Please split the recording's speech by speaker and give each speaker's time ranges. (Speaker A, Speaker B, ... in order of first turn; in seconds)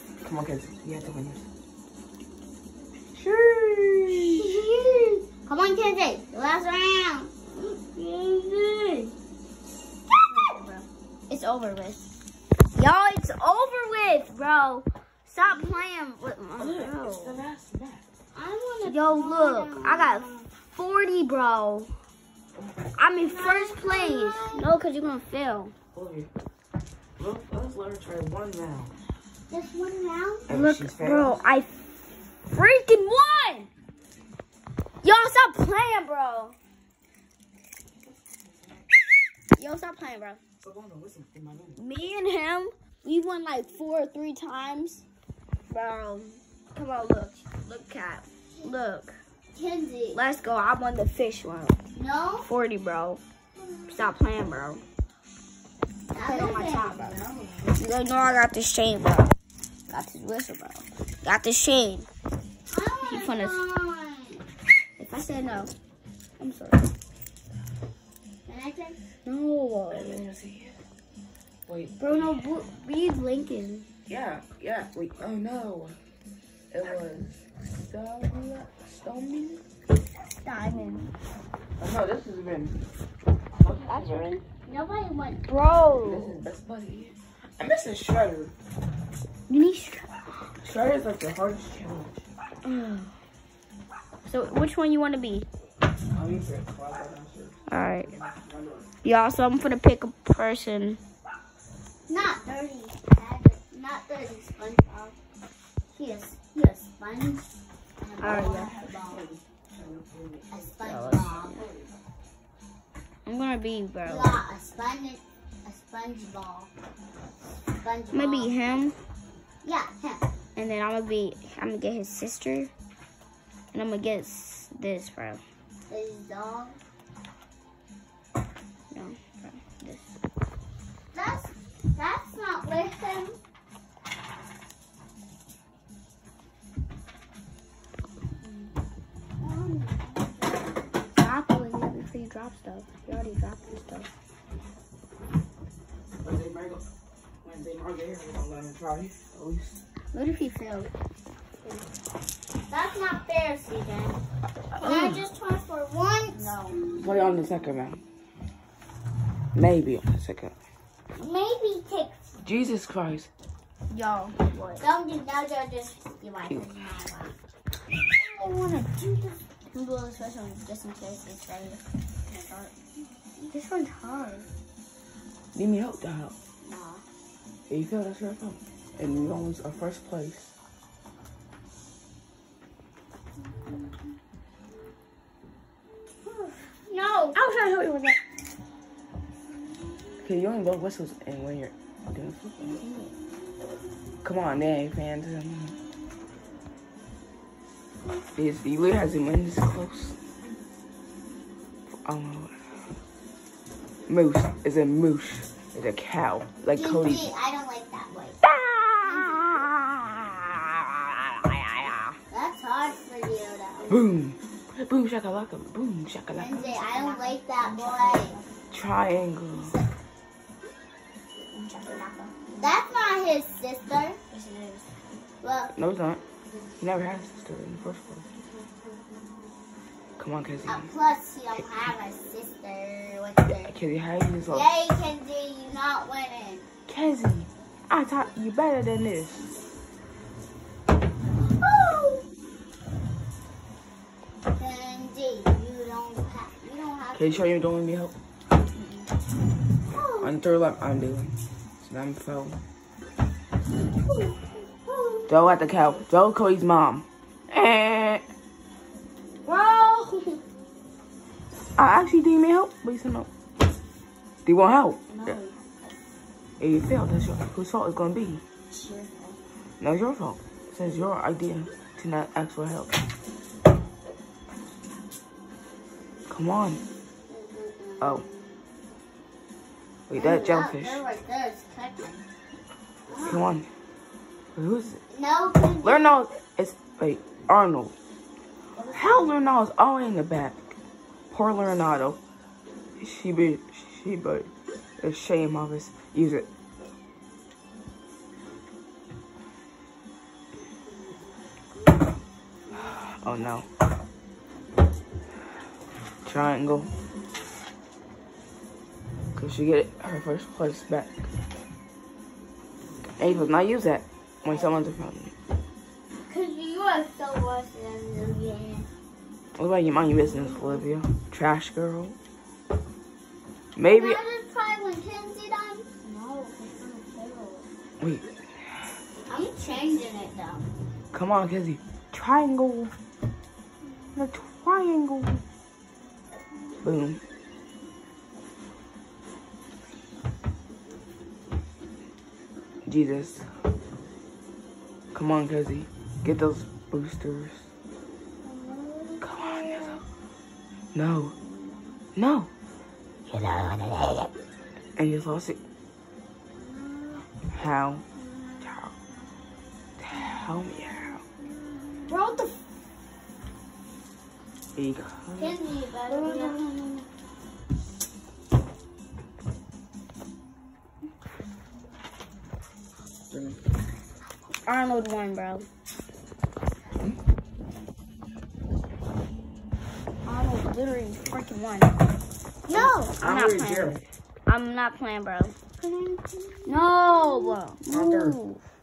Speaker A: 0.2-1.5, 3.1-4.5, 16.6-18.0, 25.9-26.3, 27.2-28.9, 30.5-31.4, 40.6-41.8, 69.9-70.8, 71.7-72.3, 74.1-76.0, 76.7-79.6, 81.8-82.8, 83.5-84.3, 86.0-88.5, 90.6-92.3, 96.1-98.9, 108.3-111.4, 146.2-146.8, 147.4-149.8, 154.7-155.2, 156.9-158.0, 159.5-160.5, 162.4-163.3, 175.5-176.3, 177.7-180.5, 187.3-188.2, 190.2-192.8, 194.2-195.8, 198.3-200.2, 202.0-202.6, 204.1-207.3, 208.4-212.2, 213.9-216.6, 218.7-219.7, 225.8-226.2, 226.8-228.2, 230.2-230.9, 233.5-234.7, 236.9-239.4, 247.1-248.1, 250.2-252.6, 255.3-258.2, 261.8-263.3, 264.4-265.4, 266.6-268.4, 269.8-273.0, 276.3-276.8, 280.1-281.0, 283.2-283.7, 284.5-285.0, 285.8-287.9, 288.9-290.8, 291.3-292.2, 293.0-296.5, 302.7-303.7, 306.2-306.9, 309.3-311.3, 313.2-315.3, 319.6-322.2, 323.8-324.2, 328.0-328.3, 331.1-332.9, 334.1-335.4, 336.8-337.2, 342.9-343.4, 345.1-347.7, 349.2-350.0, 350.9-351.3, 352.1-352.5, 353.3-353.7, 355.0-355.6, 357.5-358.0, 358.6-358.9, 360.0-361.2, 364.8-365.6, 373.3-373.6, 382.7-384.0, 387.9-388.4
Speaker B: 5.4-9.1, 18.3-20.5, 23.2-24.7, 29.5-30.5, 49.5-50.2, 51.9-52.5, 53.6-53.9, 56.1-57.8, 62.7-64.4, 68.5-69.0, 80.7-81.1, 84.7-85.4, 102.1-105.1, 105.9-109.2, 110.5-111.8, 114.0-116.7, 117.8-118.5, 119.6-120.2, 125.9-126.8, 131.1-133.3, 139.4-140.7, 152.7-154.2, 154.8-156.8, 161.2-162.3, 164.8-167.3, 176.6-177.0, 186.3-187.3, 206.7-208.4, 209.0-209.6, 212.3-214.1, 216.3-218.3, 222.6-224.2, 225.4-225.7, 228.4-229.0, 230.7-233.7, 234.5-236.7, 241.4-242.2, 244.6-247.5, 249.9-250.3, 254.1-254.3, 254.9-255.3, 259.5-260.1, 265.1-265.5, 268.7-269.4, 277.3-278.6, 280.1-282.2, 283.1-283.4, 285.1-286.2, 288.8-289.3, 300.9-301.3, 302.7-303.4, 316.3-318.9, 320.3-320.8, 323.8-327.6, 329.3-330.7, 348.4-350.0, 356.6-357.3, 358.2-358.8, 361.9-362.5, 365.4-366.9, 382.7-383.1, 385.8-387.6
Speaker C: 10.3-12.0, 12.7-17.4, 18.8-21.9, 23.0-25.7, 30.5-31.7, 32.5-33.7, 35.0-36.6, 39.6-40.4, 41.8-45.0, 45.7-49.2, 50.1-51.8, 52.4-53.2, 53.9-54.8, 56.2-57.1, 57.7-59.3, 59.9-62.1, 63.0-63.6, 65.0-65.7, 66.4-66.9, 69.2-70.3, 72.0-73.9, 80.5-81.1, 83.7-84.4, 85.5-86.4, 89.5-90.1, 92.6-93.1, 94.2-95.5, 97.7-98.1, 99.0-101.0, 108.2-108.8, 110.8-111.6, 113.2-114.4, 118.1-119.0, 120.5-122.7, 123.7-125.4, 128.9-130.1, 141.1-144.1, 150.1-150.9, 156.4-157.4, 163.9-164.8, 168.1-172.7, 173.4-174.5, 192.8-193.1, 216.5-218.5, 221.5-222.5, 224.3-224.9, 259.5-260.2, 265.1-265.4, 362.1-362.5, 366.1-367.0, 374.6-375.7, 380.2-382.0, 382.8-385.5, 386.6-388.6